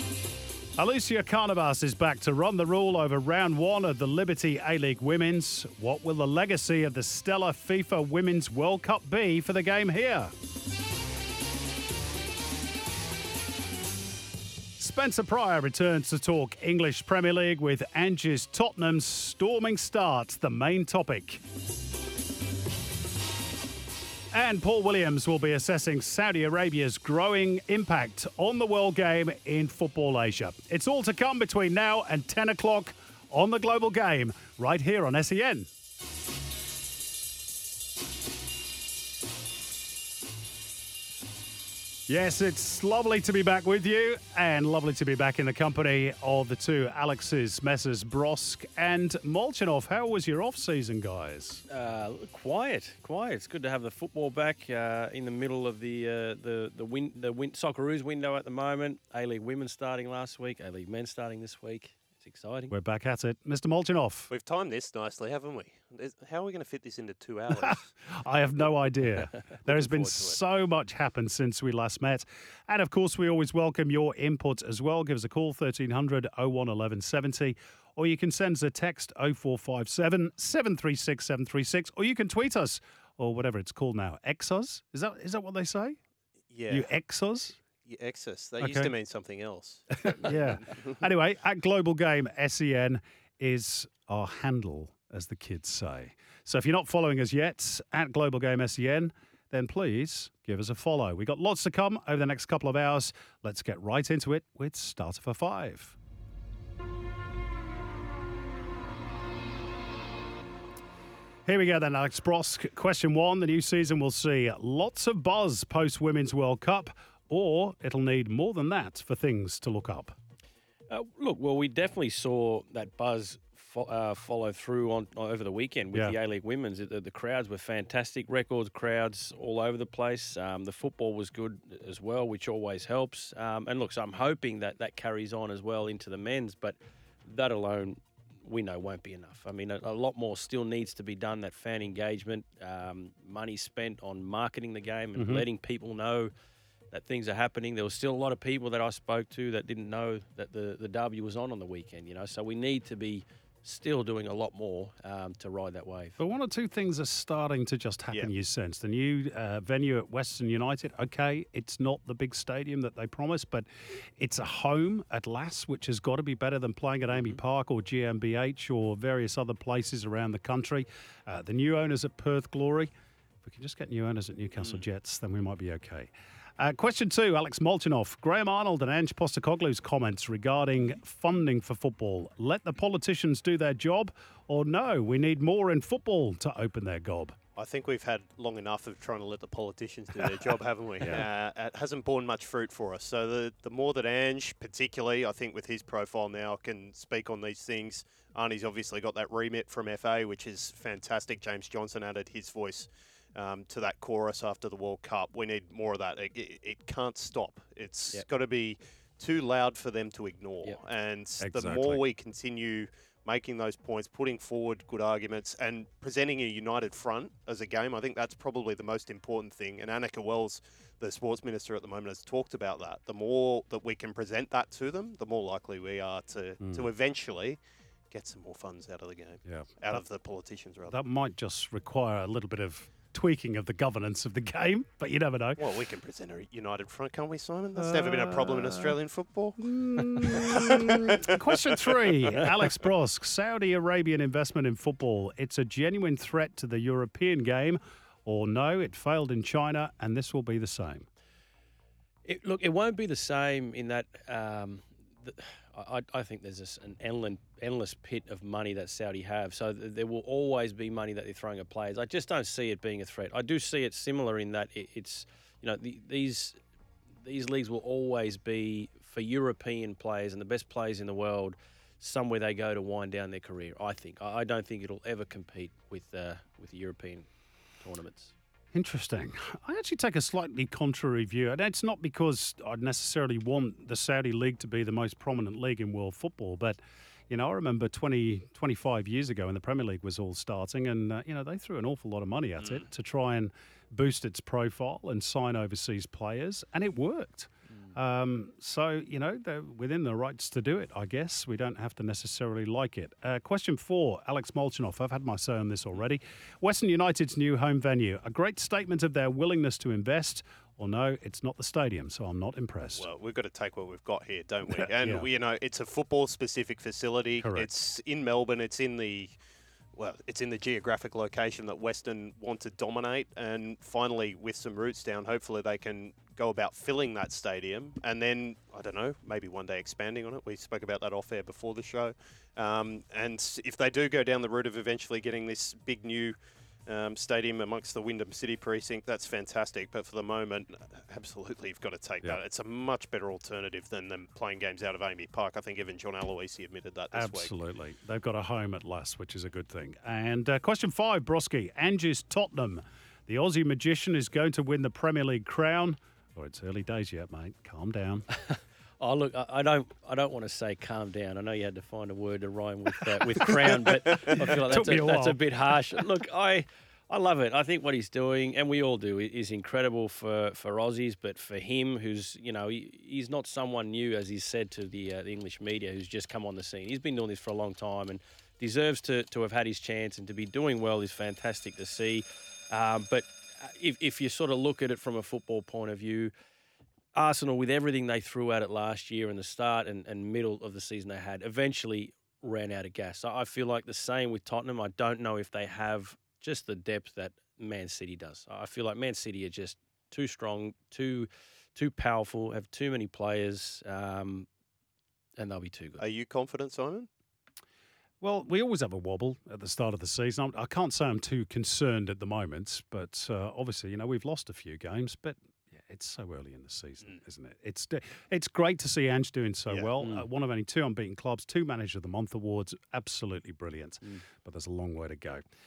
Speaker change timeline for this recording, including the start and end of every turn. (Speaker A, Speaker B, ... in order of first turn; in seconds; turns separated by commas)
Speaker A: 0.8-10.3, Speaker A: 14.8-21.4, Speaker A: 24.3-35.7, Speaker A: 42.1-51.6, Speaker B: 51.7-62.7, Speaker A: 62.7-64.3, Speaker C: 64.3-67.9, Speaker A: 67.5-86.0, Speaker C: 70.0-70.4, Speaker C: 86.5-86.9, Speaker A: 86.7-87.6, Speaker C: 87.8-90.3, Speaker A: 88.6-88.9, Speaker A: 90.0-106.0, Speaker A: 111.5-120.1, Speaker B: 120.9-146.3, Speaker A: 145.2-145.4, Speaker B: 146.9-156.2, Speaker A: 156.2-172.9, Speaker A: 173.4-187.3, Speaker B: 174.6-174.8, Speaker C: 187.6-227.6, Speaker A: 211.4-212.0, Speaker C: 228.1-230.9, Speaker A: 229.4-229.8, Speaker A: 230.9-235.6, Speaker C: 235.6-240.7, Speaker A: 237.8-238.9, Speaker A: 239.6-251.1, Speaker B: 252.2-266.6, Speaker B: 267.2-277.3, Speaker B: 277.8-278.3, Speaker A: 278.7-313.0, Speaker C: 312.9-319.3, Speaker A: 314.9-315.2, Speaker A: 317.4-317.7, Speaker C: 319.9-347.5, Speaker A: 347.1-358.2, Speaker B: 358.5-386.3, Speaker A: 364.6-365.4, Speaker B: 387.1-404.5, Speaker B: 405.4-406.0, Speaker C: 406.0-407.1, Speaker A: 408.2-425.4